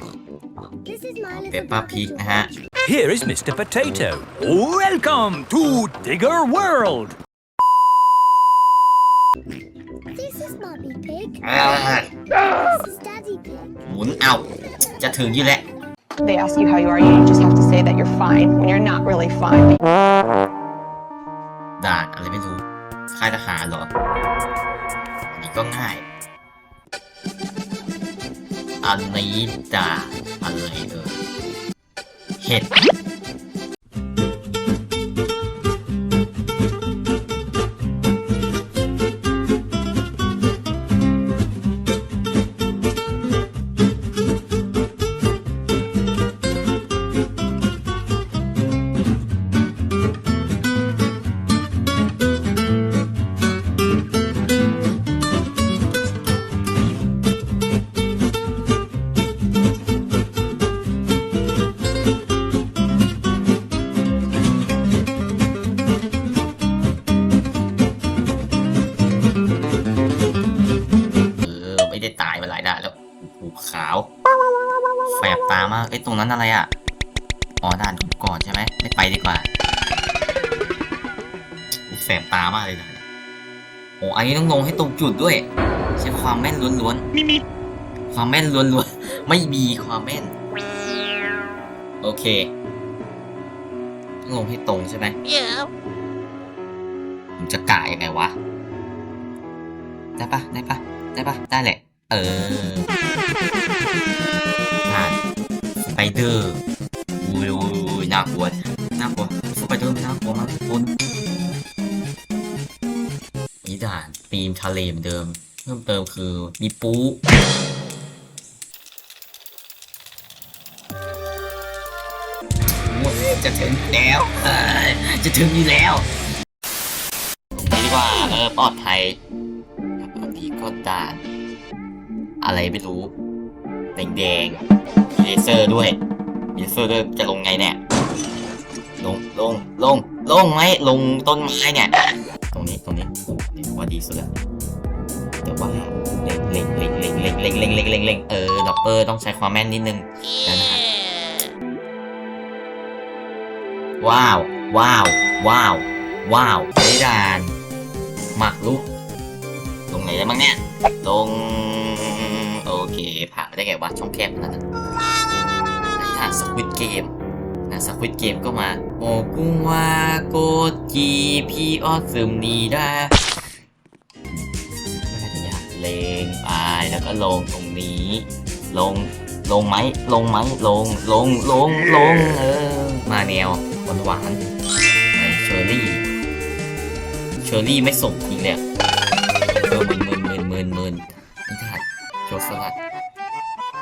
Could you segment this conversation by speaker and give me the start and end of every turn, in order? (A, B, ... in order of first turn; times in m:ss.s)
0:00.8-0:01.6 A
0:01.3-0:02.6 B
0:02.8-0:07.2 C
0:10.2-0:11.4 A
0:11.4-0:12.1 B
0:12.6-0:13.7 A
0:13.8-0:15.6 B
0:16.2-0:19.8 D
0:21.8-0:23.9 B
0:25.3-0:26.1 B
0:28.8-0:31.2 B
0:32.4-0:32.7 B
1:11.4-1:14.1 B
1:15.1-1:16.7 B
1:17.6-1:19.5 B
1:21.9-1:23.0 B
1:24.0-1:27.0 B
1:28.1-1:30.3 B
1:32.0-1:32.5 B
1:34.2-1:35.2 B
1:37.4-1:38.4 B
1:40.2-1:42.9 B
1:44.9-1:45.2 B
1:45.8-1:46.6 B
1:47.2-1:50.9 B
1:53.6-1:57.2 B
2:02.8-2:06.1 B
2:07.5-2:09.2 B
2:10.0-2:11.3 B
2:12.4-2:13.1 B
2:13.9-2:14.6 B
2:15.1-2:16.0 B
2:16.5-2:17.8 B
2:19.0-2:21.9 B
2:22.5-2:24.3 B
2:25.4-2:30.8 B
2:34.0-2:37.6 B
2:38.3-2:38.9 B
2:39.9-2:44.6 B
2:45.9-2:47.1 B
2:47.7-2:53.2 B
2:55.0-3:04.4 B
3:05.1-3:06.0 B
3:07.4-3:08.6 B
3:09.5-3:12.8 B